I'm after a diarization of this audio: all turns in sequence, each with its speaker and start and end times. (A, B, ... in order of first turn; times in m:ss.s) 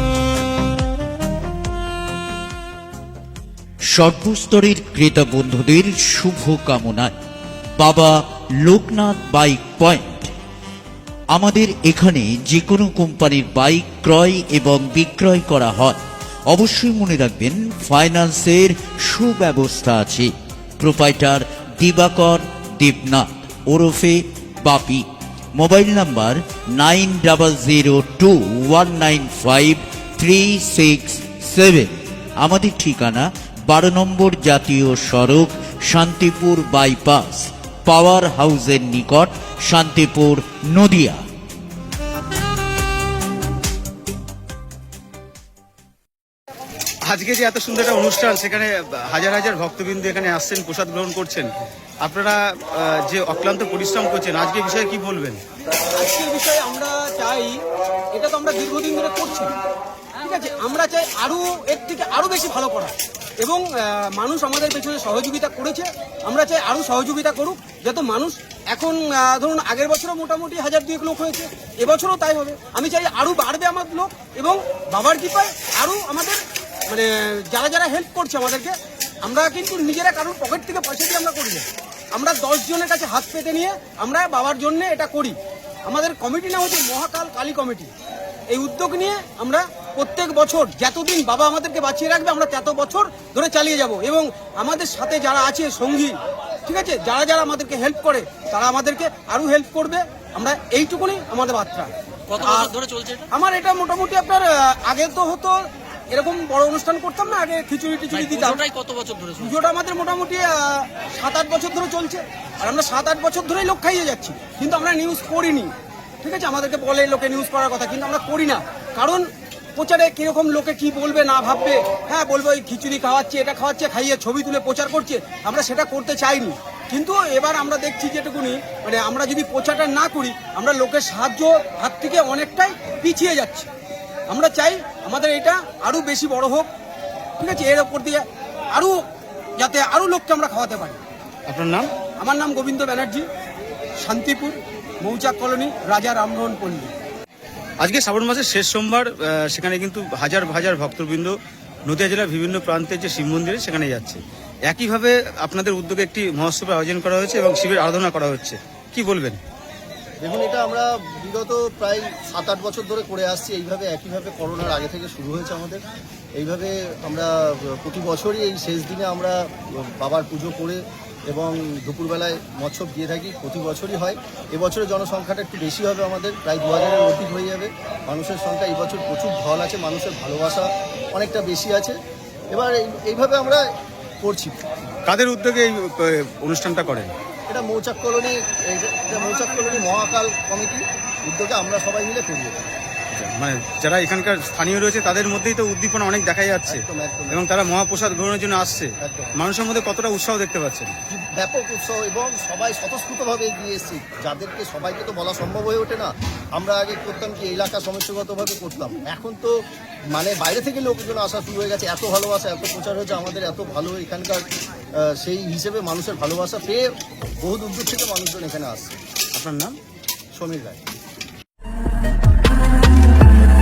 0:03.9-0:07.1 A
0:07.8-0:10.3 A
0:11.3-0:41.2 A
0:47.1-0:55.4 B
0:56.0-0:57.6 C
0:58.2-0:59.5 C
1:00.2-1:25.4 C
1:25.9-1:27.9 C
1:28.5-1:45.6 C
1:42.3-1:43.3 D
1:46.1-1:48.6 C
1:48.1-1:49.5 D
1:49.4-1:55.7 C
1:56.2-2:13.7 C
2:14.3-2:16.7 C
2:17.4-2:19.0 C
2:19.6-2:21.0 C
2:21.5-2:21.9 B
2:22.2-2:23.3 C
2:24.0-2:26.9 C
2:27.8-2:31.4 B
2:31.9-2:39.4 B
2:40.2-2:45.8 E
2:46.4-3:02.0 E
3:02.5-3:03.6 E
3:04.2-3:04.6 E
3:05.1-3:07.1 B
3:07.5-3:12.7 E
3:13.1-3:21.0 B
3:16.7-3:17.4 E
3:19.0-3:19.4 E
3:21.1-3:29.6 E
3:30.2-3:34.4 E
3:35.0-3:36.9 E
3:37.4-3:39.0 E
3:39.3-3:39.8 B
3:40.4-3:40.8 E